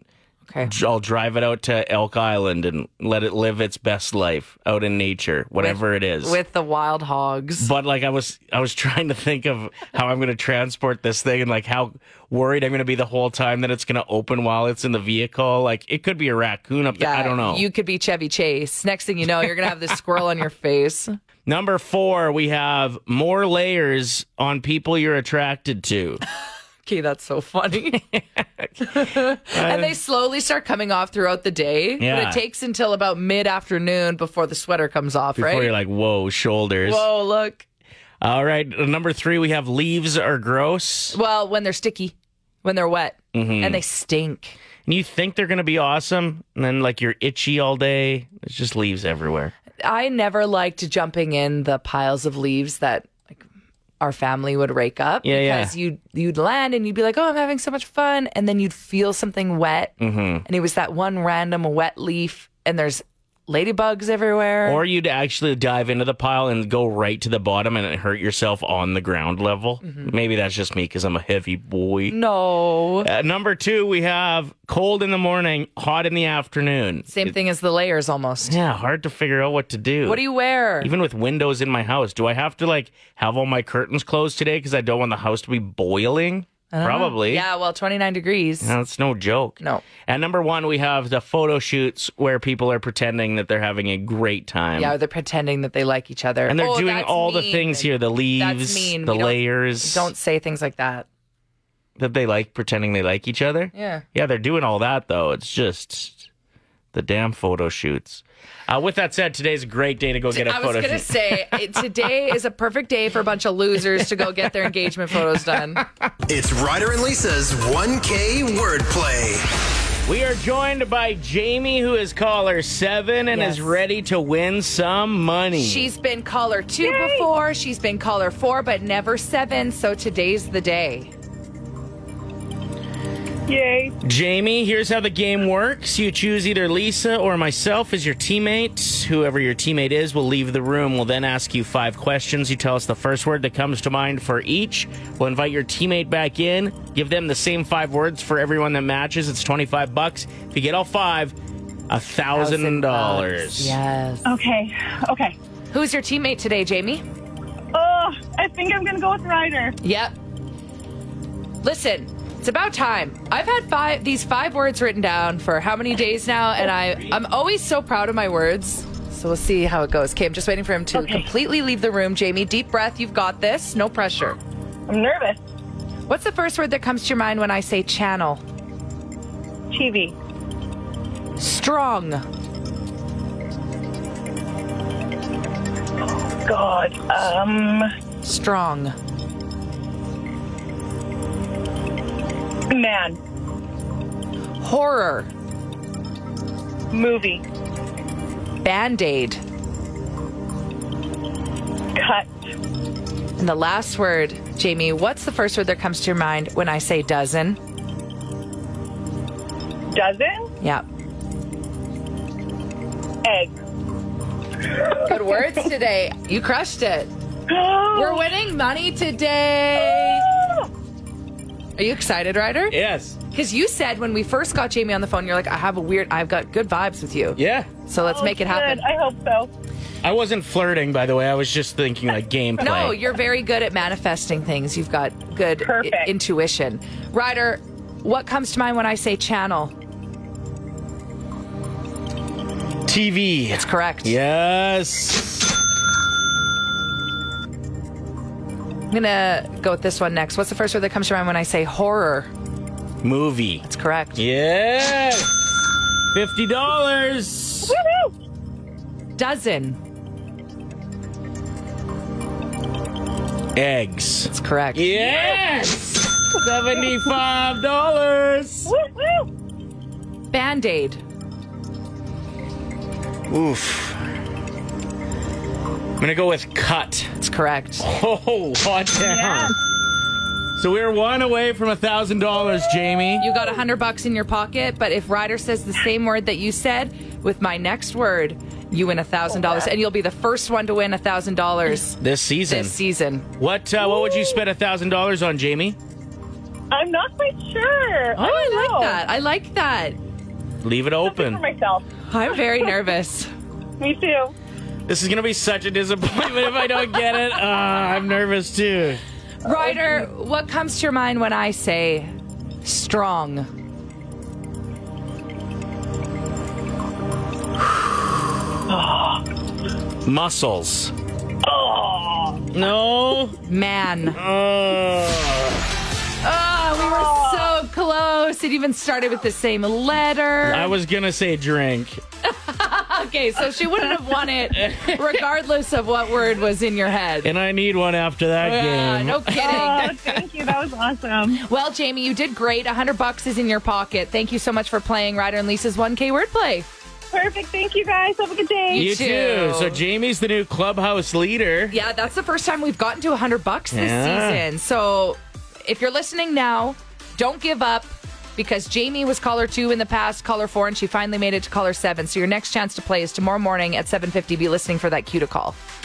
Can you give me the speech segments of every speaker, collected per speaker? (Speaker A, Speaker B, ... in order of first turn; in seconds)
Speaker A: 0.6-6.4, 7.6-17.6, 21.5-26.2, 28.1-30.0, 32.0-32.4, 35.4-37.0, 38.2-41.2, 43.3-43.8, 44.9-49.5, 55.2-55.7, 60.0-60.5, 64.7-72.2, 73.0-77.3, 78.5-80.2, 80.8-87.5, 88.6-94.9, 96.5-100.1, 102.0-106.3, 106.9-111.7, 120.1-125.9, 134.0-151.4, 151.9-153.8, 222.7-223.2, 227.4-227.7, 230.0-233.0, 242.9-245.5, 253.0-253.6, 254.2-255.4, 256.1-257.8, 263.6-268.7, 273.3-274.1, 276.0-277.1, 277.8-279.6, 280.6-283.3, 292.0-292.8, 293.4-295.8, 300.6-301.4, 304.9-309.0, 320.1-320.9, 322.5-323.4, 324.1-325.6, 330.4-332.0, 334.5-335.1, 337.2-340.2, 348.7-351.8, 353.7-354.4
Speaker B: 5.6-7.7, 16.9-21.2, 26.8-28.0, 28.8-35.7, 36.8-37.6, 41.1-44.6, 49.8-53.4, 54.0-64.8, 69.8-70.1, 72.1-73.1, 77.1-78.6, 80.0-80.9, 86.7-88.7, 89.6-89.8, 94.8-101.1, 103.7-104.0, 110.3-115.8, 123.3-123.8, 125.5-131.1, 152.3-154.3, 155.7-157.0, 159.8-160.1, 161.6-174.4, 176.1-178.4, 181.4-182.2, 188.2-189.0, 194.6-195.3, 198.6-199.4, 203.4-207.6, 210.6-210.9, 215.0-217.1, 217.9-220.3, 221.8-222.8, 223.3-228.9, 232.6-239.8, 243.5-244.2, 248.9-252.3, 253.6-254.2, 259.2-259.8, 264.3-264.9, 270.3-271.0, 277.2-277.9, 283.2-293.3, 298.1-300.0, 302.1-303.3, 309.4-312.1, 312.6-313.5, 323.4-324.2, 326.2-330.8, 332.2-337.3, 338.4-340.0, 341.3-346.7, 348.7-349.8, 351.7-365.6
Speaker C: 116.3-119.5
Speaker D: 126.8-127.3, 133.5-133.9, 154.2-155.4, 157.7-159.8, 170.9-171.3, 174.9-175.4, 179.7-180.2, 186.2-187.9, 192.7-193.2, 196.9-197.4, 201.9-202.3, 209.9-210.5, 213.2-213.6, 214.7-215.5, 217.5-218.3, 219.8-220.7, 228.0-229.5, 235.6-236.1, 257.7-258.1, 264.9-265.3, 268.7-269.3, 279.1-279.5, 294.0-294.4, 296.7-299.0, 301.0-301.9, 303.8-304.3, 318.7-319.2, 321.4-322.4, 326.9-327.6, 339.4-341.4, 347.1-348.9